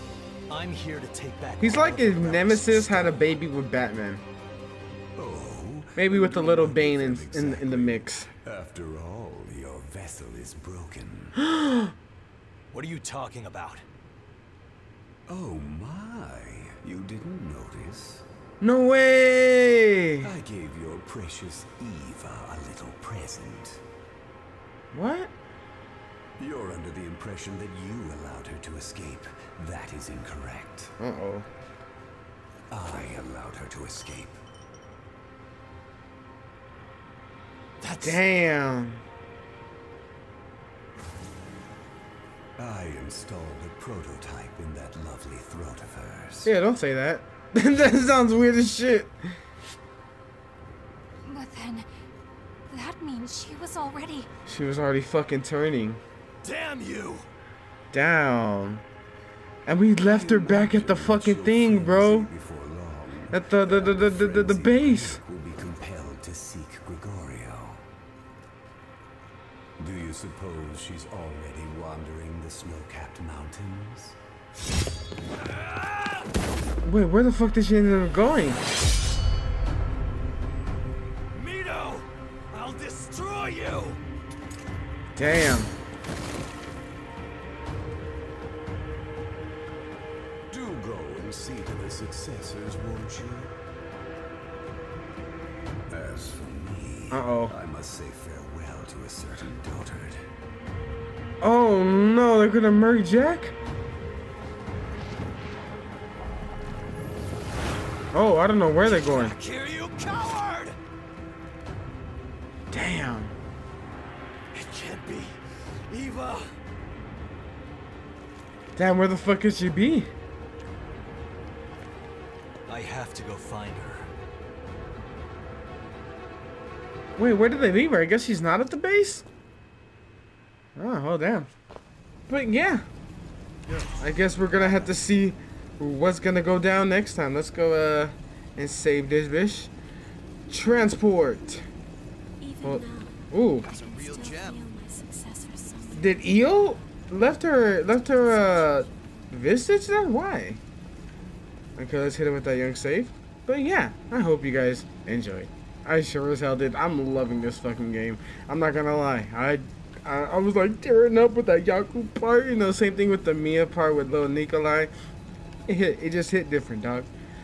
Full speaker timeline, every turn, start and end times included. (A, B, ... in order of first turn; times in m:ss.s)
0:00.5-0:03.4 A
0:01.6-0:04.2 B
0:05.2-0:11.4 C
0:06.0-0:08.3 B
0:11.4-0:11.9 B
0:12.7-0:13.8 A
0:15.3-0:18.3 C
0:18.6-0:20.3 B
0:20.2-0:23.8 C
0:24.9-0:25.3 B
0:26.4-0:30.9 C
0:31.0-0:31.5 B
0:32.7-0:34.4 C
0:37.8-0:38.2 A
0:38.0-0:39.0 B
0:42.6-0:46.5 C
0:46.4-0:49.3 B
0:51.2-0:51.9 D
0:52.7-0:54.3 D
0:54.4-0:56.0 B
0:56.4-0:57.3 A
0:57.9-0:58.8 B
0:59.6-1:02.3 B
0:59.9-1:07.8 C
1:03.3-1:05.2 B
1:09.8-1:14.2 C
1:15.5-1:16.2 A
1:16.8-1:18.6 B
1:21.3-1:24.0 A
1:25.1-1:25.7 B
1:30.5-1:33.5 C
1:35.9-1:40.2 C
1:37.1-1:37.5 B
1:41.4-1:43.5 B
1:48.1-1:49.3 B
1:48.8-1:50.8 A
1:52.7-1:53.3 B
1:54.5-1:56.5 A
1:58.8-2:00.1 B
2:02.7-2:04.1 A
2:07.2-2:09.2 B
2:10.8-2:11.5 B
2:12.3-2:12.8 B
2:13.7-2:14.0 A
2:14.0-2:19.7 B
2:20.5-2:21.6 B
2:22.4-2:23.2 D
2:22.6-2:23.7 B
2:23.7-2:24.6 A
2:23.7-2:25.9 D
2:25.9-2:30.6 B
2:31.8-2:44.9 B
2:45.7-2:47.1 B